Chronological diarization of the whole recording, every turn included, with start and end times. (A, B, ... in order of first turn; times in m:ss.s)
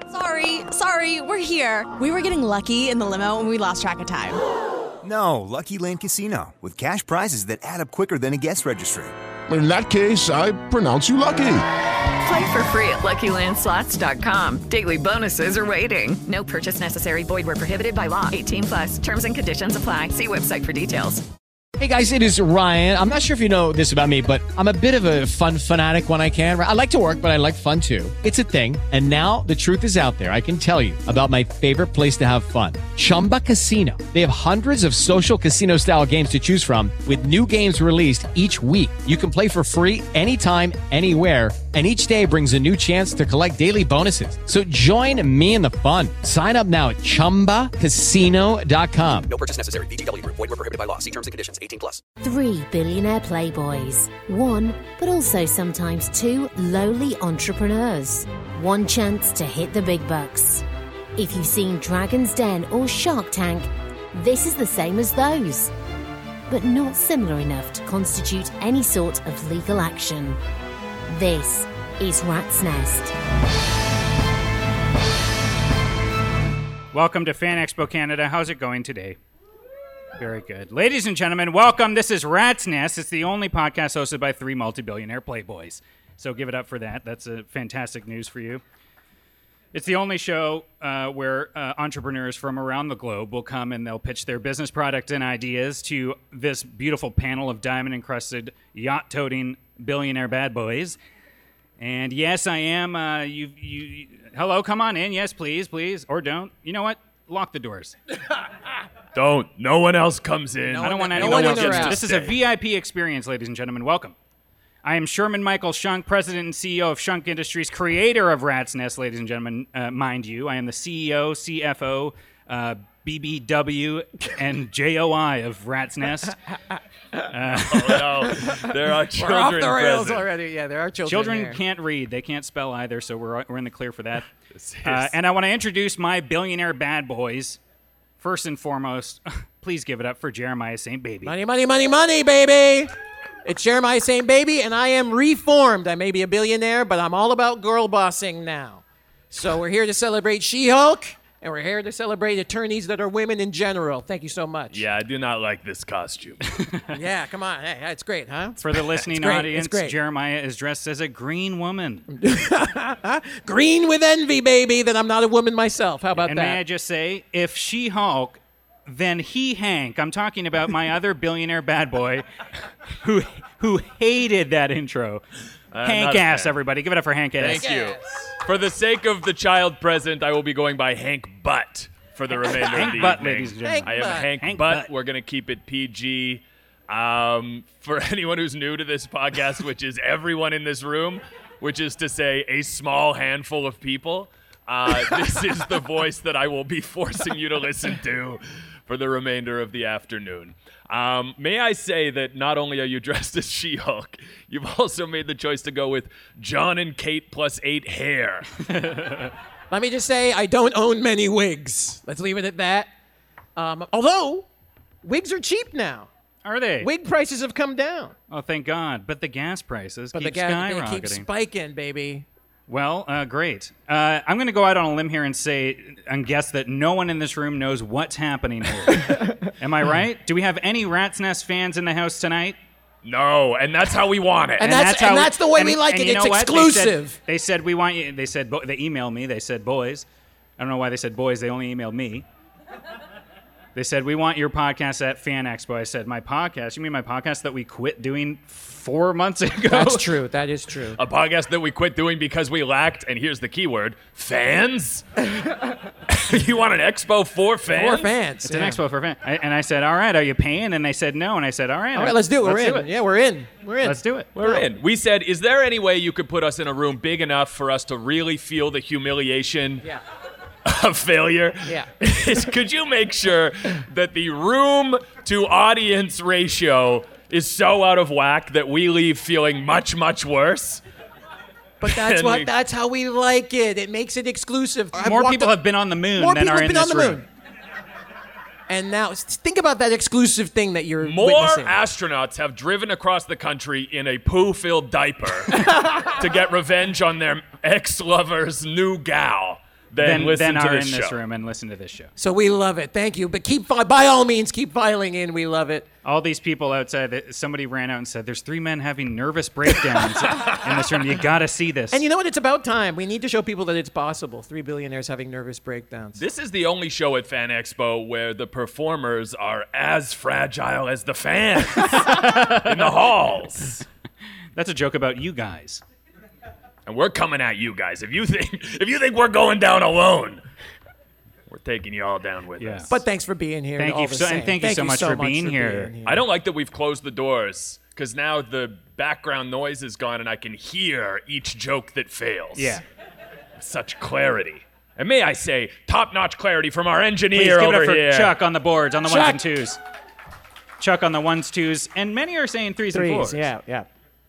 0:00.1-0:04.4 A
0:05.0-0:09.1 B
0:09.5-0:11.6 C
0:12.2-0:21.2 D
0:21.8-0:49.3 E
0:49.3-0:52.0 F
0:52.2-1:00.6 G
1:01.2-1:05.7 G
1:06.5-1:10.4 G
1:11.1-1:13.1 G
1:16.9-1:19.2 H
1:20.2-1:28.6 H
1:29.7-1:41.0 H
1:41.8-1:48.0 H
1:49.1-1:52.4 I
1:50.7-1:52.0 J
1:50.8-1:54.2 H
1:54.8-2:06.4 H
2:07.3-2:08.3 H
2:07.6-2:10.3 I
2:08.4-2:11.6 J
2:11.1-2:14.3 H
2:14.5-2:15.1 I
2:14.8-2:17.6 H
2:18.2-2:21.4 H
2:21.2-2:22.9 J
2:23.4-2:34.8 J
2:34.7-2:36.5 I
2:36.9-2:40.0 J
2:38.6-2:42.0 H
2:42.1-2:46.6 J
2:46.2-2:52.2 H
2:53.0-2:55.2 H
2:55.7-2:56.6 I
2:55.8-2:57.8 H
2:57.4-3:28.5 I
2:57.6-2:58.3 J
3:02.7-3:04.9 H
3:03.6-3:04.3 J
3:28.7-3:29.3 H
3:29.7-3:32.9 J
3:33.6-3:34.5 J
3:35.0-3:36.1 J
3:36.4-3:36.9 H
3:36.8-3:38.2 J
3:38.3-3:41.3 H
3:40.1-3:42.3 J
3:42.7-3:52.6 H
3:53.0-3:54.7 I
3:54.6-3:57.2 J
3:54.6-4:00.1 H
4:00.6-4:02.3 H
4:03.8-4:10.2 H
4:09.7-4:11.0 J
4:11.0-4:15.0 I
4:16.1-4:18.1 I
4:17.7-4:18.8 J
4:18.4-4:22.9 H
4:22.0-4:24.6 J
4:23.8-4:24.3 H
4:24.4-4:29.8 I
4:30.6-4:40.8 I
4:31.6-4:31.9 J
4:41.8-4:45.6 J
4:41.8-4:42.5 I
4:45.0-4:47.2 H
4:46.2-4:47.3 J
4:48.7-4:51.8 J
4:51.0-5:01.2 I
4:55.6-4:56.1 J
5:00.0-5:02.1 H
5:02.2-5:05.9 J
5:06.0-5:12.0 H
5:11.9-5:16.2 J
5:16.2-5:23.8 I
5:21.9-5:23.0 H
5:24.6-5:25.8 H
5:26.9-5:30.4 I
5:31.5-5:32.9 I
5:32.6-5:33.0 H
5:32.9-5:36.2 J
5:33.8-5:35.9 H
5:36.0-5:42.8 I
5:42.6-5:42.8 H
5:43.6-5:48.3 I
5:47.3-5:49.8 H
5:49.1-5:49.4 J
5:50.8-5:53.4 H
5:52.9-5:53.9 J